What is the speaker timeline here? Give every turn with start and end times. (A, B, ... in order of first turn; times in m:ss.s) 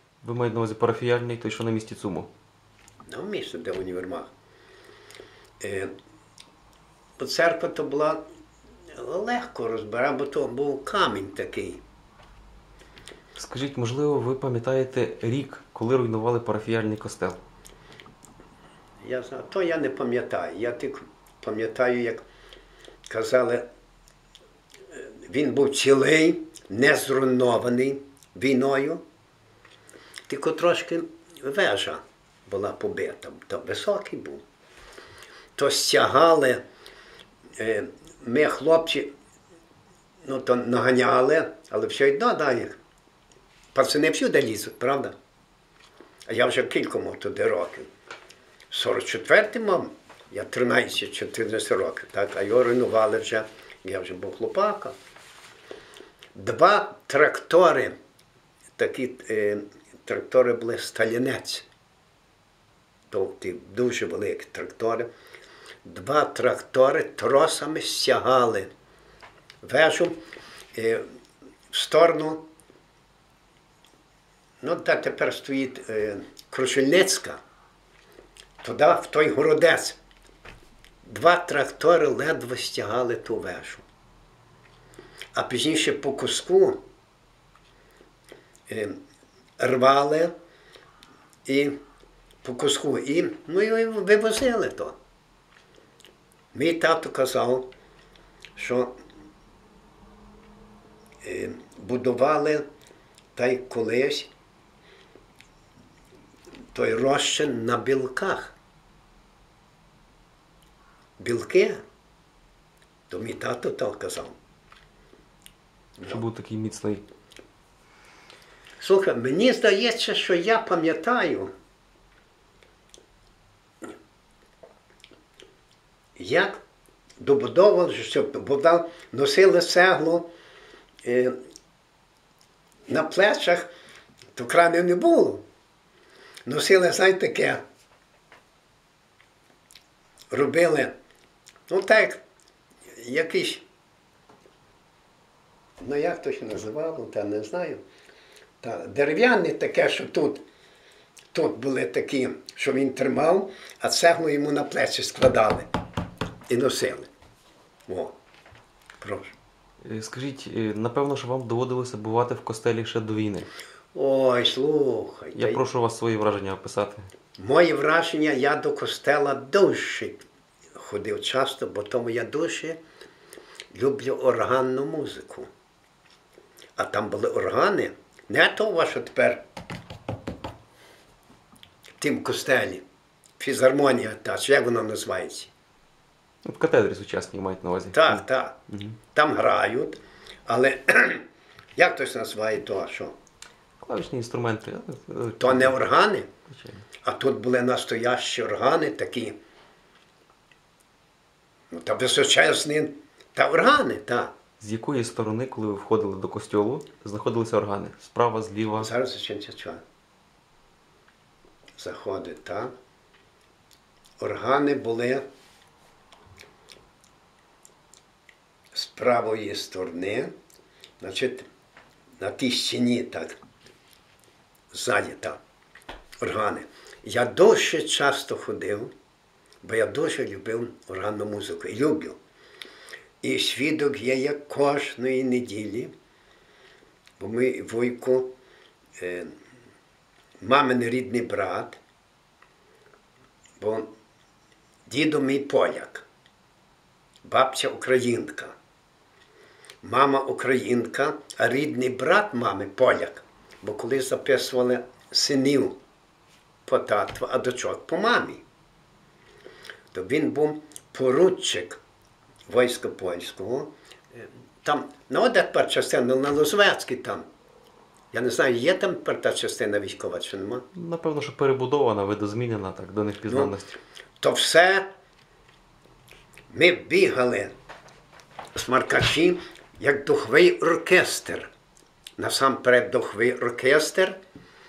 0:00.2-0:02.3 A
0:03.1-0:04.3 B
0:05.6-0:05.9 B
0:07.2-0:08.2 B
0:08.9-0:11.8 B
0:13.4-0:17.4 A
0:19.0-0:22.2 B
0:23.1-0:23.7 B
0:24.9-0:29.0 B
0:30.3-0:34.4 B
0:35.6-0:36.6 B
0:37.6-0:39.1 B
0:40.2-0:42.8 B
0:43.7-0:45.1 B
0:46.3-0:47.9 B
0:48.7-0:54.9 B
0:56.3-0:58.0 B
0:58.8-1:01.6 B
1:03.1-1:05.1 B
1:05.8-1:08.7 B
1:09.6-1:10.2 B
1:10.7-1:11.0 B
1:11.7-1:12.4 B
1:14.6-1:17.4 B
1:18.6-1:20.0 B
1:21.0-1:23.8 B
1:25.3-1:26.8 B
1:28.7-1:29.0 B
1:29.6-1:30.3 B
1:31.4-1:31.8 B
1:32.4-1:35.0 B
1:36.5-1:37.7 B
1:38.6-1:38.9 B
1:41.2-1:42.6 B
1:43.4-1:44.3 B
1:46.7-1:48.5 B
1:51.2-1:51.8 B
1:53.1-1:54.3 B
1:56.0-1:57.0 A
1:58.8-2:01.5 B
2:06.2-2:06.6 B
2:07.2-2:10.3 B
2:11.0-2:11.3 B
2:12.9-2:13.7 B
2:14.3-2:15.4 B
2:16.4-2:17.6 B
2:20.3-2:20.9 B
2:21.7-2:22.2 B
2:23.0-2:23.6 B
2:25.8-2:27.8 B
2:28.6-2:30.4 B
2:31.3-2:35.7 B
2:36.5-2:37.1 B
2:37.9-2:38.1 B
2:39.0-2:39.3 B
2:39.8-2:43.5 A
2:43.9-2:45.6 B
2:45.3-2:47.1 A
2:47.4-2:50.2 B
2:50.7-2:52.8 B
2:53.7-2:55.5 B
2:56.8-2:59.4 B
3:02.0-3:02.8 B
3:03.4-3:05.5 B
3:06.4-3:09.0 A
3:07.9-3:08.6 B
3:09.1-3:11.2 B
3:11.8-3:13.1 B
3:13.8-3:15.8 A
3:15.4-3:16.3 B
3:16.5-3:16.8 A
3:17.0-3:19.4 B
3:21.7-3:24.3 B
3:24.6-3:28.9 A
3:28.8-3:29.8 B
3:31.8-3:32.7 B
3:34.2-3:35.2 B
3:38.7-3:40.3 B
3:41.0-3:41.5 B
3:42.2-3:43.4 B
3:44.7-3:45.4 B
3:46.2-3:48.9 B
3:49.6-3:52.2 B
3:53.2-3:55.9 B
3:57.2-3:58.3 B
3:59.0-3:59.3 B
4:00.4-4:01.8 B
4:03.6-4:03.9 B
4:04.9-4:06.0 B
4:07.2-4:08.5 B
4:09.8-4:15.8 B
4:16.6-4:18.4 B
4:19.9-4:21.8 B
4:22.5-4:27.2 B
4:28.1-4:30.7 B
4:30.7-4:33.8 A
4:34.2-4:34.9 B
4:36.5-4:37.5 B
4:38.5-4:41.5 B
4:42.2-4:44.2 B